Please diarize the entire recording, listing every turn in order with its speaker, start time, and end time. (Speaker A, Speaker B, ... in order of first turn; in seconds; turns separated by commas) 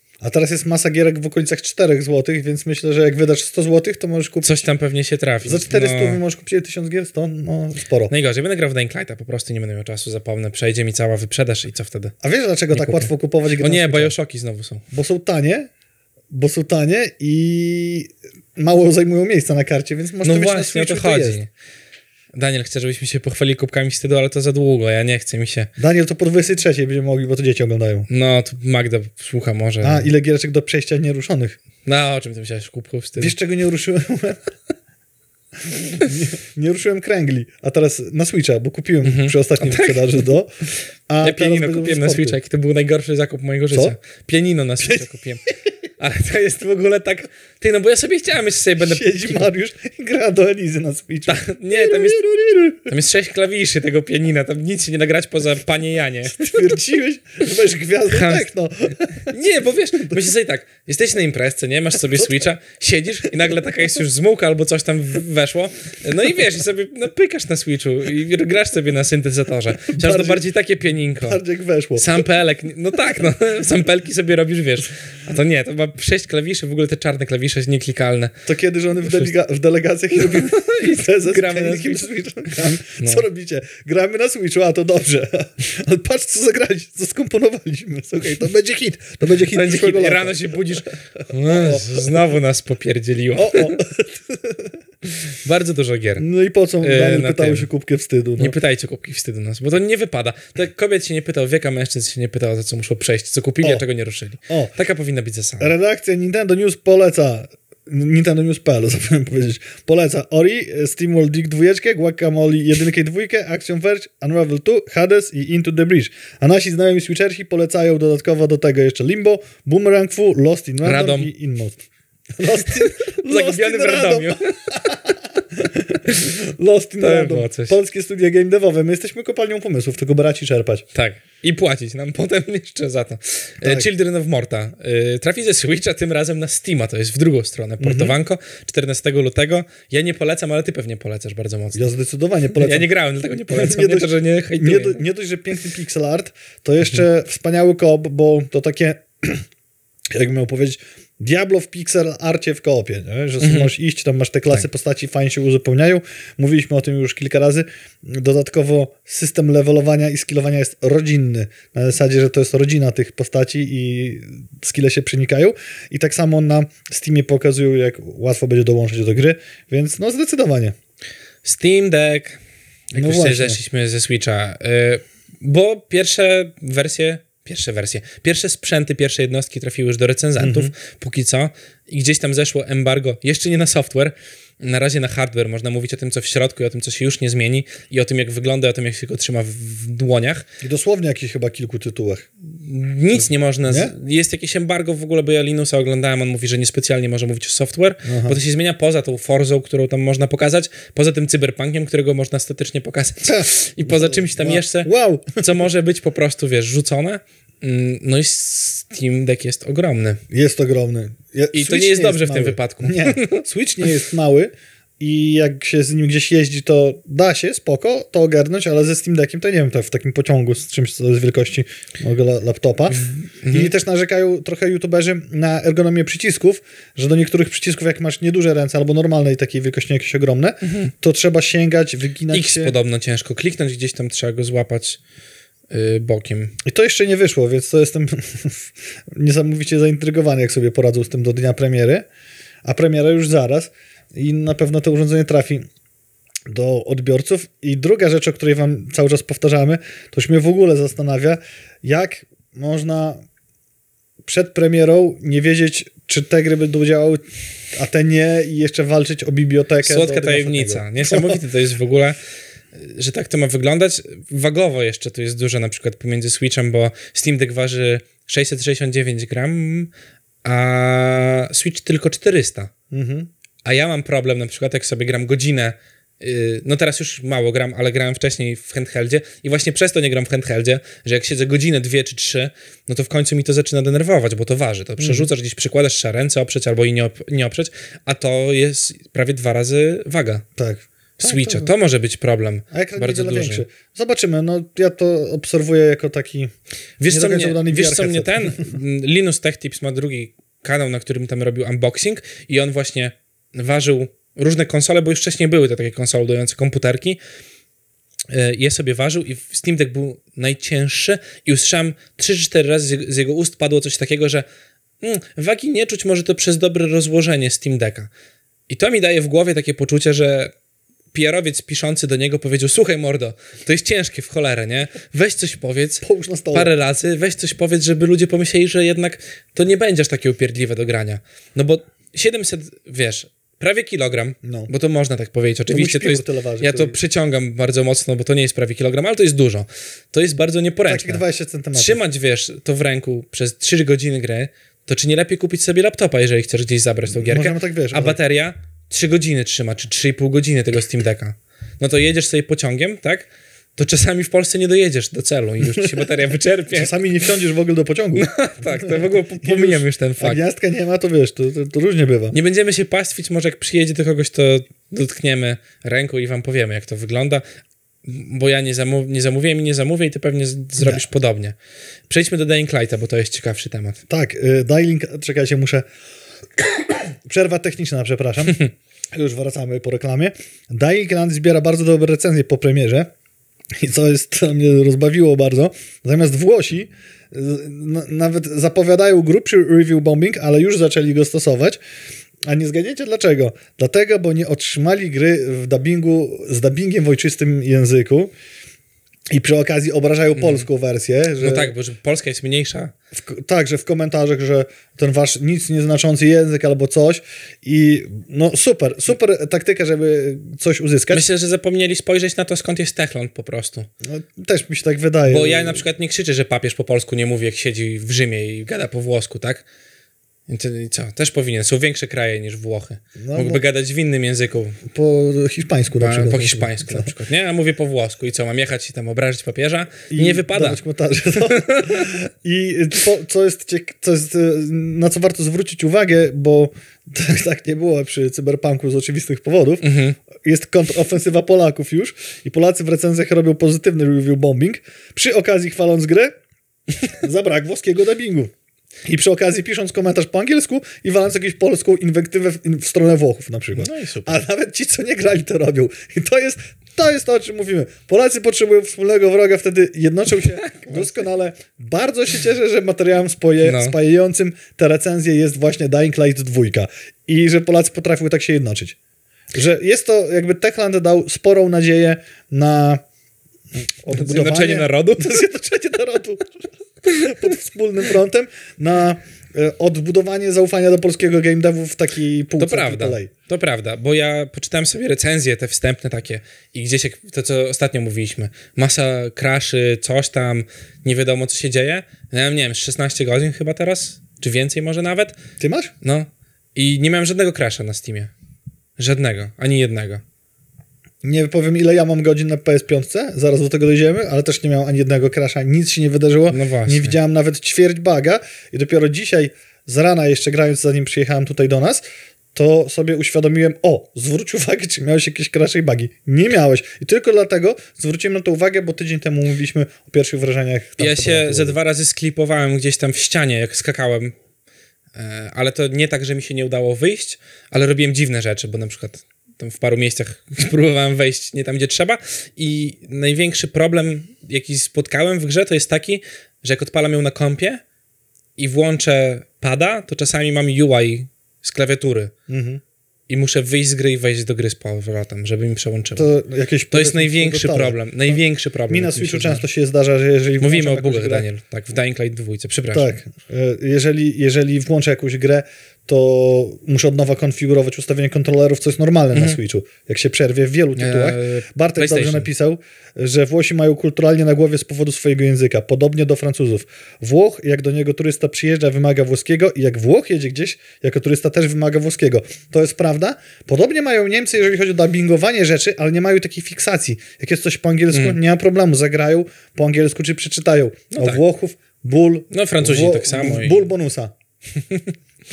Speaker A: 0.2-4.7, Speaker B: 4.4-6.2, Speaker A: 5.4-8.1, Speaker B: 8.1-12.2, Speaker A: 12.2-14.1, Speaker B: 12.7-14.8, Speaker A: 14.9-15.7, Speaker A: 16.3-21.4, Speaker B: 20.2-21.5, Speaker B: 22.3-25.7, Speaker A: 25.8-28.1, Speaker B: 28.1-30.1, Speaker A: 29.8-31.6, Speaker B: 31.9-33.4, Speaker A: 33.2-34.5, Speaker A: 35.9-42.4, Speaker B: 39.0-40.3, Speaker B: 41.2-45.4, Speaker B: 46.0-49.5, Speaker A: 48.8-52.9, Speaker B: 51.3-52.2, Speaker B: 52.9-56.8, Speaker A: 56.2-59.4, Speaker B: 58.1-58.5, Speaker B: 59.2-71.4, Speaker A: 69.9-70.5, Speaker A: 71.2-72.2, Speaker B: 72.0-78.3, Speaker A: 78.5-90.5, Speaker B: 79.0-79.3, Speaker B: 80.1-82.1, Speaker B: 83.0-83.2, Speaker B: 89.5-93.8, Speaker A: 91.5-92.0, Speaker A: 93.4-94.8, Speaker B: 95.4-96.3, Speaker A: 96.2-98.5, Speaker B: 96.8-97.7, Speaker B: 98.4-105.7, Speaker A: 104.5-104.7, Speaker A: 105.6-121.8, Speaker B: 120.8-121.3, Speaker A: 122.4-130.9, Speaker B: 122.5-125.0, Speaker B: 127.0-127.8, Speaker B: 130.9-141.9, Speaker A: 133.6-133.9, Speaker A: 137.8-138.2, Speaker A: 141.7-142.9, Speaker B: 142.5-145.0, Speaker A: 143.5-149.4, Speaker A: 150.1-170.8, Speaker B: 153.4-153.7, Speaker B: 171.4-172.4, Speaker B: 172.9-190.5, Speaker A: 172.9-173.6, Speaker A: 180.4-180.7, Speaker A: 190.6-192.3, Speaker B: 192.5-210.2, Speaker A: 193.7-193.9, Speaker A: 198.1-198.4, Speaker A: 203.2-205.4, Speaker A: 210.3-232.7, Speaker B: 211.5-213.4, Speaker B: 222.9-223.7, Speaker B: 232.3-235.0, Speaker B: 235.7-236.6, Speaker A: 236.7-242.1, Speaker A: 242.7-245.7, Speaker A: 246.5-253.2, Speaker A: 254.2-261.4, Speaker B: 259.8-262.2, Speaker B: 262.7-269.9, Speaker B: 270.4-272.7, Speaker A: 272.9-273.3, Speaker B: 273.6-290.4, Speaker A: 285.0-285.3, Speaker A: 290.6-291.7, Speaker B: 291.2-293.6, Speaker A: 292.7-296.5, Speaker B: 297.0-307.2, Speaker A: 297.1-298.8, Speaker B: 308.3-314.5, Speaker B: 315.0-318.1, Speaker B: 318.7-320.5, Speaker B: 321.1-341.2, Speaker A: 326.0-326.7, Speaker A: 334.4-334.7, Speaker A: 335.7-337.0, Speaker A: 340.9-342.0, Speaker B: 341.8-357.2, Speaker A: 347.1-348.2, Speaker A: 355.7-356.0, Speaker A: 356.7-362.4, Speaker B: 358.1-360.4, Speaker B: 362.3-367.4, Speaker B: 368.0-371.6, Speaker A: 370.8-371.1, Speaker B: 372.1-374.0, Speaker A: 374.1-375.9, Speaker A: 376.6-383.1, Speaker A: 383.8-391.8, Speaker A: 392.5-398.3, Speaker A: 399.3-401.7, Speaker B: 400.4-400.7, Speaker B: 401.4-402.9, Speaker A: 403.1-411.2, Speaker B: 411.1-413.9, Speaker A: 414.0-415.9, Speaker B: 415.3-419.6, Speaker B: 420.5-424.8, Speaker A: 423.2-423.6, Speaker A: 424.9-427.1, Speaker B: 426.0-432.1, Speaker A: 430.1-446.3, Speaker B: 439.8-440.2, Speaker A: 447.0-448.5, Speaker A: 449.1-469.0, Speaker B: 453.8-454.4, Speaker B: 460.6-461.2, Speaker B: 463.6-464.0, Speaker A: 469.5-473.0, Speaker A: 474.0-476.5, Speaker B: 474.1-475.5, Speaker A: 477.1-483.3, Speaker B: 482.6-495.4, Speaker A: 495.6-495.9, Speaker B: 496.0-498.3, Speaker B: 499.0-500.2, Speaker A: 501.2-512.0, Speaker B: 506.5-507.2, Speaker A: 512.5-521.8, Speaker B: 521.0-524.4, Speaker B: 525.1-537.8, Speaker B: 538.6-542.3, Speaker A: 542.5-542.8, Speaker B: 543.3-546.3, Speaker A: 546.2-551.5, Speaker B: 546.9-549.6, Speaker B: 550.6-553.1, Speaker A: 552.9-584.4, Speaker B: 561.0-562.5, Speaker B: 578.1-578.4, Speaker B: 581.1-581.4, Speaker B: 582.5-583.9, Speaker B: 584.8-585.1